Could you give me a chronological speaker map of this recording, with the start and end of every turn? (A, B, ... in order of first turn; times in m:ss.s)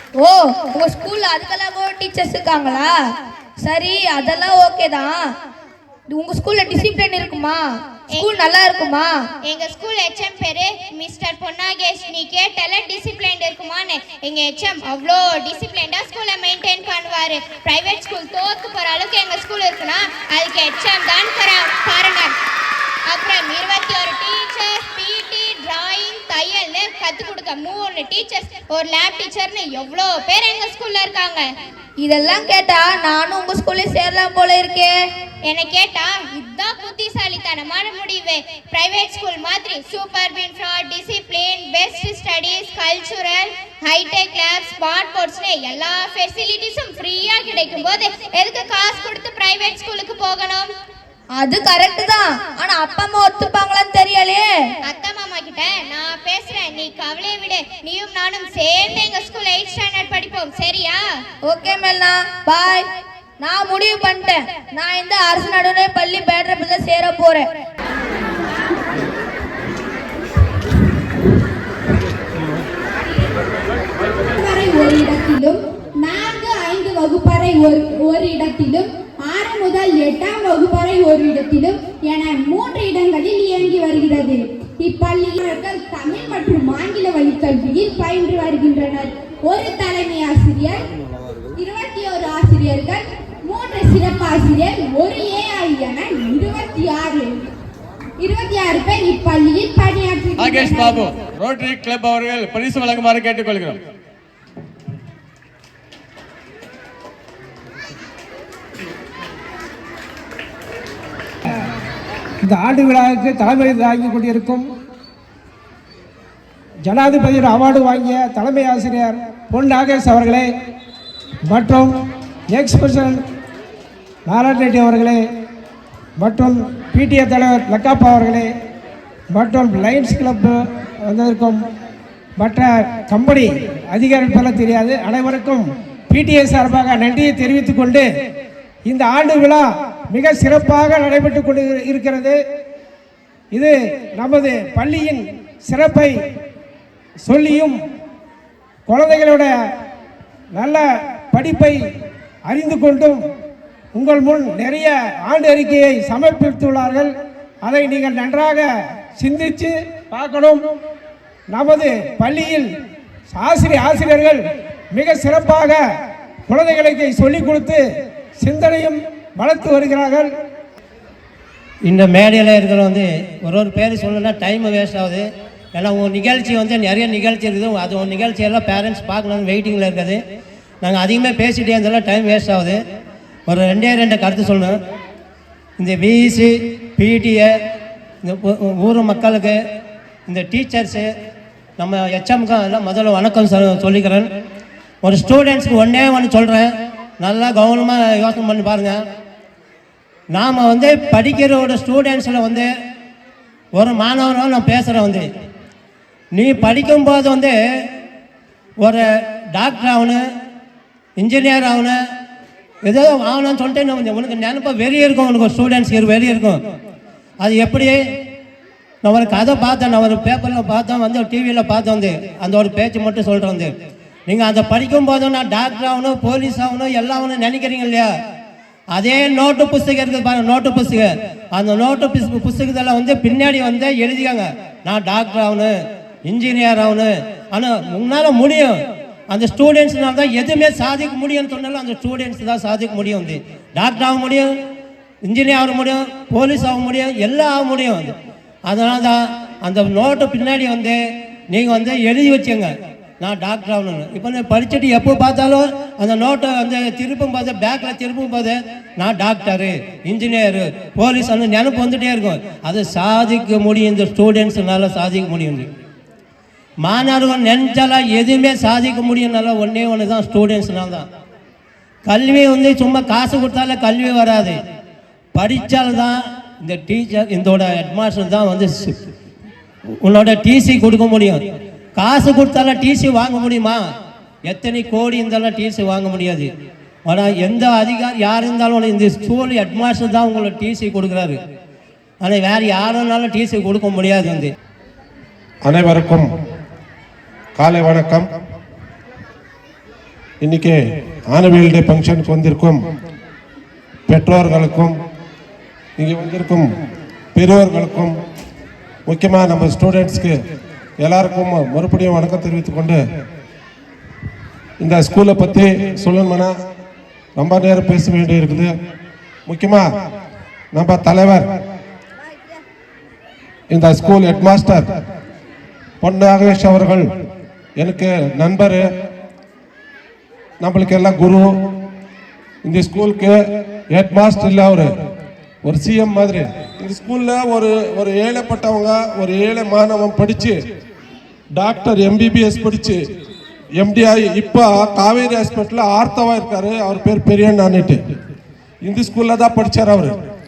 0:00.2-0:02.9 A
0:03.6-0:05.2 A
0:06.1-0:07.6 A
0:08.1-0:08.4 B
0:08.1-0:09.1 A
0:09.4-0:22.3 B
0:23.1-0:31.5 B
0:32.0-0:34.9 A
0:35.5-0:50.7 B
0:51.4-0:54.4 A
0:54.8-1:01.0 B
1:01.5-1:02.9 A
1:03.4-1:07.4 A
1:14.4-1:30.8 C
1:31.6-1:37.3 C
1:38.2-1:41.1 C
1:40.4-1:43.8 D
1:52.4-1:54.6 E
1:56.9-2:00.4 E
2:01.5-2:01.9 E
2:02.5-2:03.2 E
2:04.3-2:05.2 E
2:06.2-2:08.5 E
2:09.3-2:10.5 E
2:11.0-2:11.6 E
2:12.4-2:18.0 E
2:18.8-2:22.4 E
2:23.5-2:26.1 E
2:27.2-2:27.8 E
2:28.9-2:29.5 E
2:30.6-2:31.8 E
2:32.5-2:33.2 E
2:33.9-2:37.1 E
2:37.6-2:38.7 E
2:39.2-2:40.6 E
2:41.5-2:42.7 E
2:43.3-2:44.4 E
2:44.9-2:45.8 E
2:46.5-2:47.8 E
2:48.4-2:50.3 E
2:51.8-3:00.2 F
3:00.8-3:02.8 F
3:03.5-3:04.8 F
3:05.8-3:07.5 F
3:08.2-3:09.6 F
3:10.3-3:11.1 F
3:11.8-3:14.3 F
3:15.0-3:19.0 F
3:20.3-3:22.7 F
3:23.8-3:25.2 F
3:26.3-3:27.5 F
3:29.5-3:30.2 F
3:31.2-3:32.0 F
3:32.8-3:36.6 F
3:37.4-3:38.0 F
3:39.0-3:43.7 F
3:44.3-3:48.1 F
3:48.9-3:55.7 F
3:56.3-3:58.8 F
3:59.3-4:04.5 F
4:05.2-4:08.1 F
4:08.7-4:11.0 F
4:11.5-4:25.7 F
4:26.8-4:31.1 F
4:32.0-4:34.6 F
4:35.3-4:39.1 F
4:40.0-4:41.4 F
4:42.0-4:43.8 F
4:44.5-4:46.5 F
4:47.1-4:51.4 F
4:52.2-4:54.5 F
4:55.6-4:56.3 G
4:57.6-4:58.2 G
5:00.4-5:00.8 G
5:01.3-5:02.8 G
5:04.1-5:04.9 G
5:06.0-5:06.7 G
5:07.4-5:08.1 G
5:09.1-5:10.3 G
5:11.0-5:13.0 G
5:14.8-5:16.5 G
5:17.4-5:18.7 G
5:19.5-5:19.8 G
5:20.7-5:21.4 G
5:23.7-5:24.8 G
5:26.0-5:27.0 G
5:27.8-5:28.8 G
5:30.6-5:31.5 G
5:32.6-5:33.3 G
5:33.9-5:34.9 G
5:35.6-5:40.6 G
5:41.6-5:43.0 G
5:43.8-5:48.0 G
5:48.8-5:50.1 G